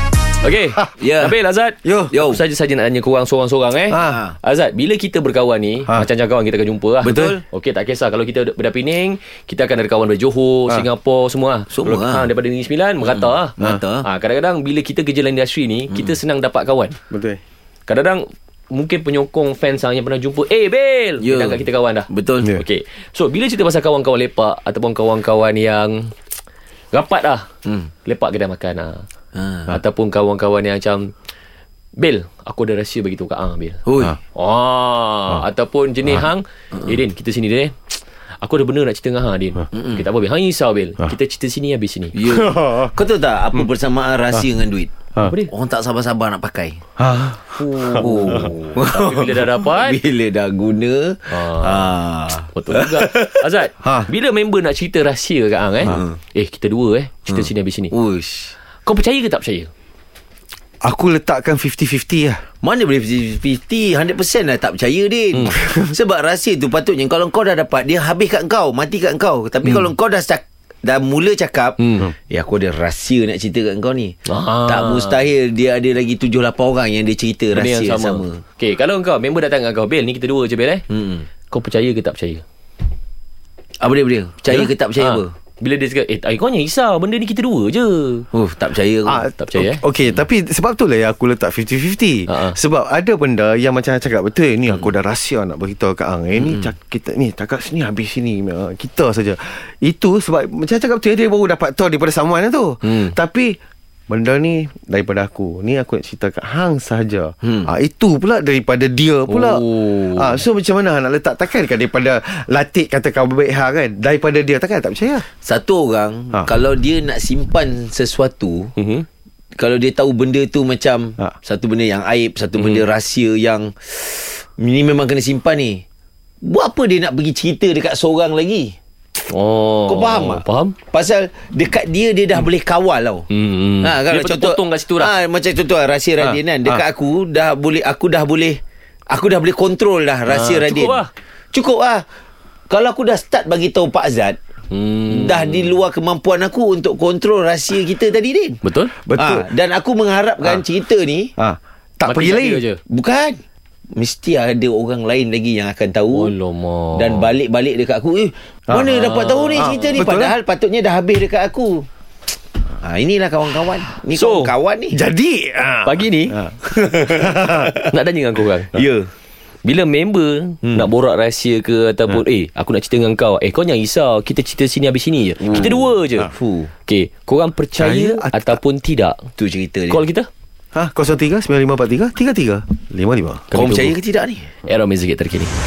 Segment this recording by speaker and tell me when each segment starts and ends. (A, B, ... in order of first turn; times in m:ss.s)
0:00.4-0:17.0 A
0:01.0-0:01.3 B
0:01.8-0:02.1 C
0:02.1-0:02.4 B
0:03.9-0:04.2 C
0:04.0-0:04.3 B
0:07.0-0:07.4 B
0:07.0-0:07.3 C
0:11.7-0:12.3 B
0:13.0-0:14.1 B
0:15.9-0:16.2 B
0:17.1-0:17.4 C
0:17.9-0:26.1 A
0:21.2-0:22.5 B
0:26.9-0:27.5 A
0:28.0-0:29.0 A
0:29.3-0:29.8 B
0:29.7-0:31.1 A
0:32.0-0:33.8 A
0:33.8-0:34.2 B
0:34.3-0:37.8 A
0:38.4-0:42.1 A
0:39.7-0:40.0 B
0:42.1-0:45.0 B
0:42.3-0:42.9 C
0:45.2-0:45.5 A
0:45.5-0:46.8 B
0:47.0-0:48.5 C
0:47.5-0:50.0 A
0:47.8-0:53.4 B
0:51.3-0:51.9 A
0:52.5-0:57.9 A
0:53.8-0:54.1 C
0:55.9-0:56.1 B
0:57.3-0:58.5 B
0:58.8-0:59.7 A
1:00.8-1:02.4 C
1:02.6-1:18.4 B
1:05.4-1:05.9 C
1:09.6-1:09.9 A
1:11.8-1:12.1 A
1:14.2-1:15.2 A
1:17.5-1:20.8 A
1:20.9-1:21.3 B
1:21.5-1:22.4 A
1:23.8-1:25.3 B
1:24.5-1:28.3 A
1:28.3-1:29.2 B
1:29.1-1:43.6 C
1:29.3-1:29.8 A
1:32.3-1:32.6 A
1:36.4-1:36.6 B
1:42.8-1:43.1 A
1:44.1-1:55.2 C
1:47.4-1:47.7 B
1:49.3-1:50.4 A
1:55.4-1:58.7 B
1:58.8-1:59.0 A
1:59.6-2:05.8 B
2:02.5-2:02.8 A
2:06.4-2:08.7 B
2:09.3-2:10.8 A
2:09.9-2:13.2 B
2:13.3-2:15.1 A
2:13.8-2:22.0 B
2:16.2-2:16.8 C
2:20.2-2:21.1 A
2:22.7-2:24.4 B
2:24.7-2:25.8 A
2:25.1-2:28.6 B
2:28.6-2:29.0 A
2:29.0-2:29.5 C
2:29.2-2:31.3 B
2:31.4-2:32.6 C
2:32.0-2:32.8 A
2:32.9-2:33.4 B
2:33.9-2:36.3 B
2:36.1-2:37.4 A
2:36.9-2:41.9 B
2:38.7-2:40.4 C
2:38.8-2:40.1 A
2:42.8-2:45.0 B
2:44.1-2:44.5 A
2:44.9-2:47.7 C
2:45.8-2:48.7 A
2:48.7-2:49.1 B
2:49.6-2:56.3 A
2:50.6-2:50.9 B
2:55.4-2:55.7 B
2:56.2-2:56.7 B
2:56.8-2:59.2 A
2:57.8-2:58.6 C
2:59.4-3:00.0 B
2:59.9-3:00.3 A
3:00.7-3:03.5 C
3:03.5-3:04.0 A
3:03.5-3:04.5 B
3:04.6-3:05.5 A